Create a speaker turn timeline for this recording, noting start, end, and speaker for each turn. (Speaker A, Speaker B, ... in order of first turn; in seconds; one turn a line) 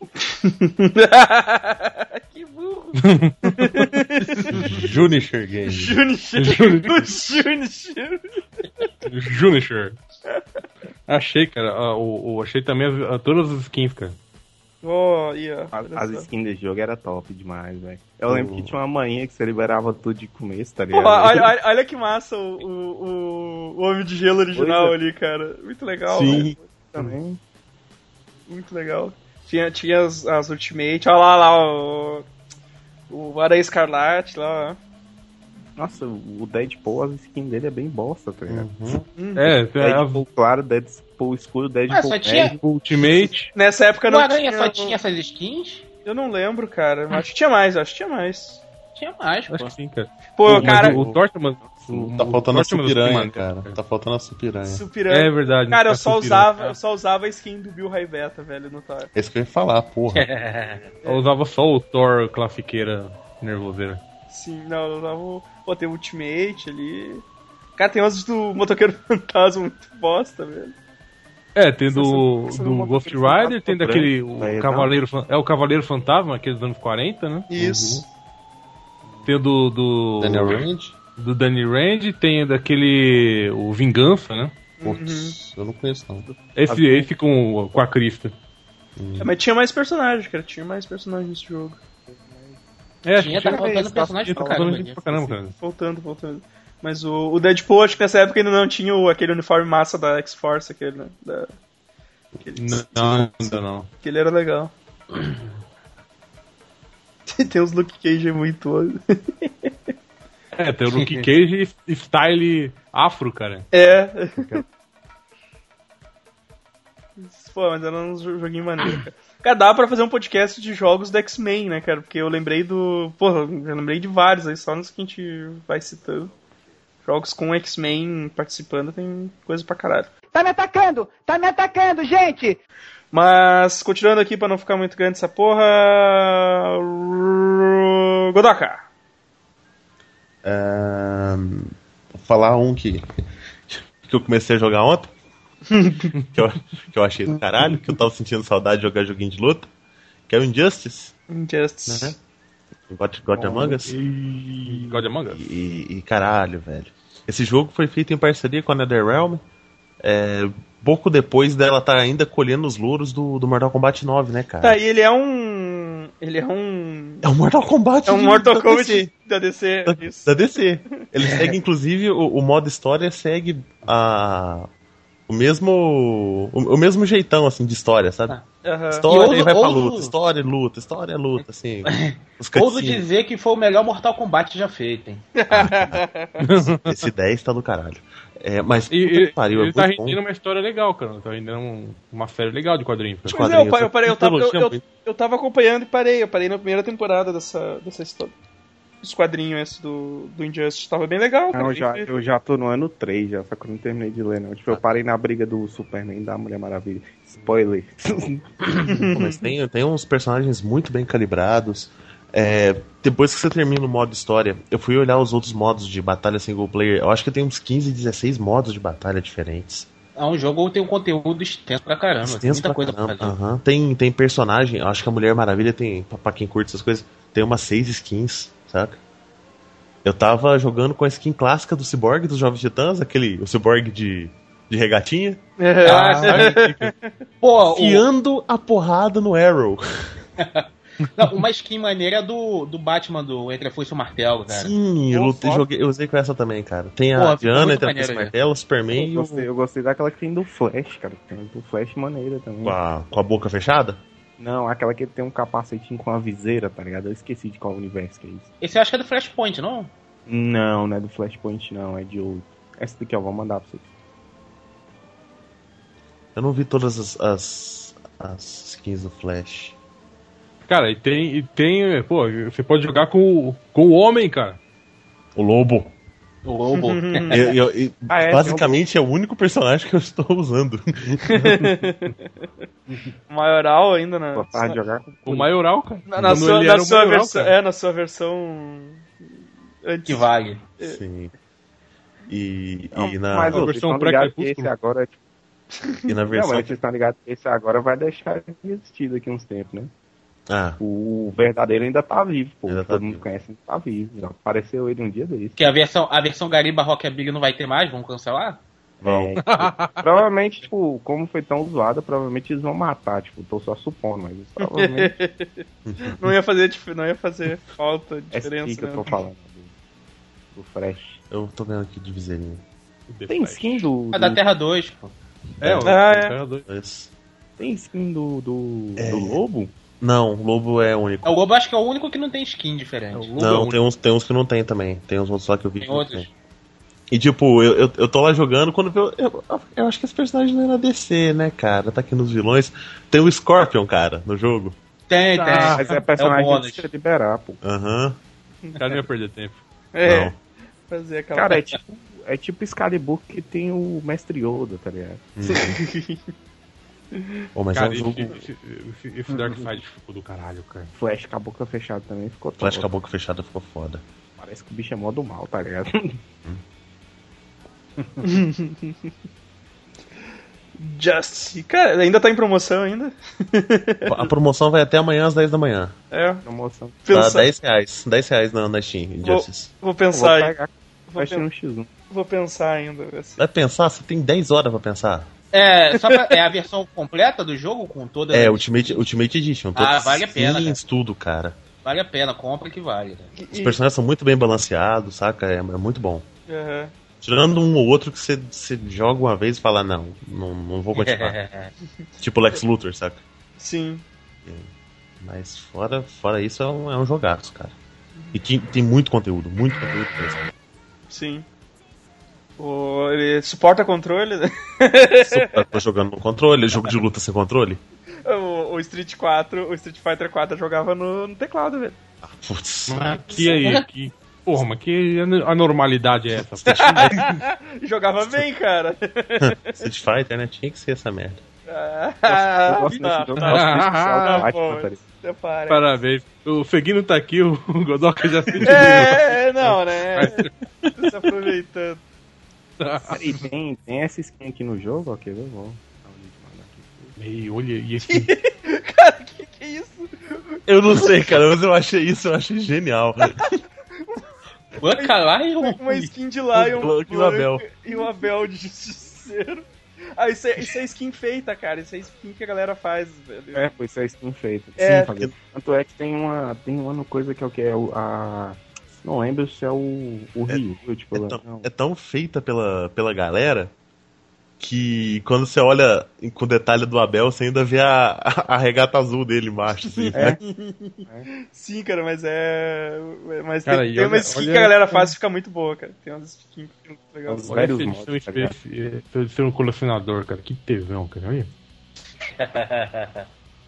Speaker A: 0.2-4.8
Speaker B: 3.0-3.9
Speaker C: 4.5-6.0
Speaker A: 5.7-8.2
Speaker B: 6.3-7.1
Speaker B: 9.0-10.0
Speaker B: 11.1-14.2
Speaker A: 14.8-16.3
Speaker D: 15.7-21.5
Speaker C: 18.3-18.7
Speaker A: 20.9-26.5
Speaker D: 24.5-25.0
Speaker C: 26.1-27.1
Speaker D: 26.3-27.4
Speaker A: 28.5-32.2
Speaker A: 33.1-34.8
Speaker D: 35.8-38.7
Speaker C: 38.5-39.1
Speaker A: 39.2-39.5
Speaker B: 39.4-40.2
Speaker D: 39.8-43.0
Speaker E: 41.9-42.5
Speaker B: 42.7-43.5
Speaker A: 43.5-45.0
Speaker E: 44.1-45.8
Speaker A: 46.0-48.6
Speaker E: 48.9-49.7
Speaker B: 49.5-53.8
Speaker A: 50.4-51.0
Speaker C: 50.5-51.2
Speaker D: 50.5-51.0
Speaker D: 51.6-52.1
Speaker C: 52.1-54.8
Speaker A: 54.6-59.1
Speaker B: 55.1-56.7
Speaker C: 59.1-60.2
Speaker E: 60.1-60.9
Speaker B: 61.0-64.0
Speaker A: 64.3-67.2
Speaker A: 67.8-70.7
Speaker B: 71.5-77.5
Speaker D: 71.9-74.9
Speaker A: 77.5-78.0
Speaker C: 77.5-78.0
Speaker B: 79.2-80.7
Speaker C: 80.2-80.9
Speaker B: 81.2-84.5
Speaker A: 84.8-85.3
Speaker C: 84.8-86.3
Speaker D: 86.2-87.1
Speaker B: 86.5-88.3
Speaker C: 89.0-89.3
Speaker A: 89.2-91.8
Speaker D: 92.1-92.6
Speaker B: 93.0-95.5
Speaker E: 93.2-95.0
Speaker D: 93.2-95.4
Speaker A: 95.5-101.5
Speaker A: 102.5-103.3
Speaker B: 102.5-103.9
Speaker A: 104.0-104.7
Speaker A: 107.3-109.7
Speaker B: 110.5-113.7
Speaker E: 110.9-111.2
Speaker A: 113.7-114.6
Speaker A: 117.2-126.3
Speaker A: 127.0-130.1
Speaker F: 130.3-132.6
Speaker A: 133.1-138.8
Speaker C: 140.4-143.0
Speaker C: 143.7-145.1
Speaker A: 145.7-146.1
Speaker C: 146.3-149.7
Speaker C: 150.3-151.1
Speaker A: 151.3-152.2
Speaker C: 151.9-152.2
Speaker C: 152.9-153.9
Speaker D: 153.3-155.1
Speaker B: 154.7-155.4
Speaker C: 155.3-159.4
Speaker C: 160.0-164.8
Speaker A: 164.6-167.2
Speaker C: 167.2-169.1
Speaker A: 168.1-170.3
Speaker C: 169.9-174.7
Speaker E: 171.2-171.5
Speaker C: 175.3-178.4
Speaker A: 178.6-179.3
Speaker C: 178.9-183.0
Speaker E: 179.1-180.1
Speaker E: 181.4-185.2
Speaker A: 185.4-186.4
Speaker C: 185.5-186.0
Speaker B: 186.4-186.9
Speaker C: 186.5-190.2
Speaker B: 188.9-193.4
Speaker A: 193.3-198.3
Speaker C: 193.3-194.8
Speaker A: 199.0-202.1
Speaker D: 201.5-208.5
Speaker A: 208.8-209.4
Speaker C: 209.1-219.9
Speaker E: 220.2-223.3
Speaker C: 222.2-229.0
Speaker C: 230.0-236.9
Speaker A: 235.6-237.1
Speaker E: 235.8-236.5
Speaker E: 237.4-238.1
Speaker C: 237.6-240.1
Speaker E: 240.4-244.7
Speaker C: 244.5-249.5
Speaker A: 245.1-245.6
Speaker D: 245.1-245.6
Speaker E: 247.1-248.3
Speaker D: 248.9-252.8
Speaker C: 252.6-254.0
Speaker D: 254.4-258.5
Speaker E: 258.6-259.9
Speaker D: 260.3-263.9
Speaker C: 266.3-269.8
Speaker B: 270.7-274.6
Speaker C: 275.3-275.9
Speaker E: 276.4-277.5
Speaker A: 276.7-277.5
Speaker C: 277.3-281.7
Speaker D: 278.1-278.8
Speaker A: 281.2-282.2
Speaker A: 283.3-284.8
Speaker D: 284.3-285.5
Speaker B: 285.2-287.5
Speaker A: 286.1-289.1
Speaker A: 289.8-291.0
Speaker E: 290.1-290.6
Speaker C: 290.8-291.3
Speaker C: 292.3-293.6
Speaker D: 292.9-295.1
Speaker B: 293.5-294.7
Speaker C: 296.1-296.7
Speaker D: 296.3-299.9
Speaker C: 300.5-300.8
Speaker D: 300.8-305.6
Speaker C: 302.7-303.2
Speaker E: 305.6-308.6
Speaker C: 309.0-309.5
Speaker D: 309.0-315.1
Speaker B: 309.4-310.1
Speaker A: 314.6-319.2
Speaker C: 315.8-316.3
Speaker D: 318.3-319.7
Speaker D: 320.5-321.2
Speaker C: 321.3-322.6
Speaker B: 323.1-323.9
Speaker D: 323.3-324.4
Speaker E: 324.1-325.1
Speaker B: 325.6-326.6
Speaker C: 325.6-325.9
Speaker A: 325.8-326.3
Speaker C: 326.6-327.1
Speaker D: 327.6-329.7
Speaker C: 329.0-329.4
Speaker C: 330.0-331.3
Speaker E: 331.2-333.3
Speaker B: 333.1-333.8
Speaker C: 333.4-336.3
Speaker E: 335.8-336.3
Speaker C: 337.1-344.8
Speaker E: 345.1-346.8
Speaker B: 345.4-346.0
Speaker D: 345.7-347.6
Speaker C: 347.6-348.2
Speaker B: 348.8-349.6
Speaker A: 349.9-350.3
Speaker C: 350.0-350.3
Speaker A: 350.9-351.6
Speaker D: 351.3-355.2
Speaker C: 355.4-355.8
Speaker A: 355.5-356.2
Speaker A: 357.1-357.4
Speaker C: 357.5-358.4
Speaker B: 357.7-360.9
Speaker D: 360.9-362.9
Speaker C: 362.6-364.0
Speaker D: 364.4-366.2
Speaker A: 368.2-368.9
Speaker A: 370.8-374.3
Speaker C: 374.0-375.9
Speaker A: 376.1-376.4
Speaker D: 376.4-377.0
Speaker A: 377.1-377.5
Speaker C: 377.1-379.7
Speaker A: 379.2-380.5
Speaker D: 380.1-381.9
Speaker A: 381.1-381.4
Speaker A: 382.1-383.4
Speaker C: 383.4-385.3
Speaker E: 385.5-389.0
Speaker A: 385.9-386.4
Speaker C: 388.3-391.6
Speaker E: 389.7-390.8
Speaker E: 391.8-393.3
Speaker A: 393.3-393.8
Speaker C: 393.5-396.2
Speaker A: 396.5-396.9
Speaker C: 397.2-401.4
Speaker E: 400.9-401.7
Speaker C: 402.2-403.2
Speaker A: 403.6-404.1
Speaker C: 405.2-407.7
Speaker C: 408.3-410.4
Speaker A: 411.1-411.4
Speaker A: 412.6-415.6
Speaker C: 415.3-417.8
Speaker A: 418.2-422.0
Speaker C: 422.2-423.0
Speaker B: 422.9-427.2
Speaker E: 423.3-423.8
Speaker C: 426.6-427.4
Speaker A: 426.8-429.9
Speaker C: 429.4-431.4
Speaker A: 431.7-435.9
Speaker D: 432.3-435.0
Speaker B: 433.4-434.4
Speaker B: 435.7-440.5
Speaker A: 438.5-442.0
Speaker B: 442.8-443.4
Speaker D: 443.1-447.1
Speaker B: 447.2-448.3
Speaker A: 448.0-451.4
Speaker C: 450.7-453.4
Speaker A: 453.4-454.2
Speaker E: 454.8-456.1
Speaker A: 455.0-459.6
Speaker C: 456.5-457.6
Speaker A: 460.2-463.6
Speaker D: 463.5-471.7
Speaker A: 464.8-465.1
Speaker C: 464.9-465.3
Speaker C: 471.1-473.7
Speaker C: 474.6-480.4
Speaker A: 479.8-487.6
Speaker D: 480.1-480.4
Speaker B: 483.6-485.1
Speaker D: 487.2-488.5
Speaker B: 487.5-491.5
Speaker E: 492.4-493.2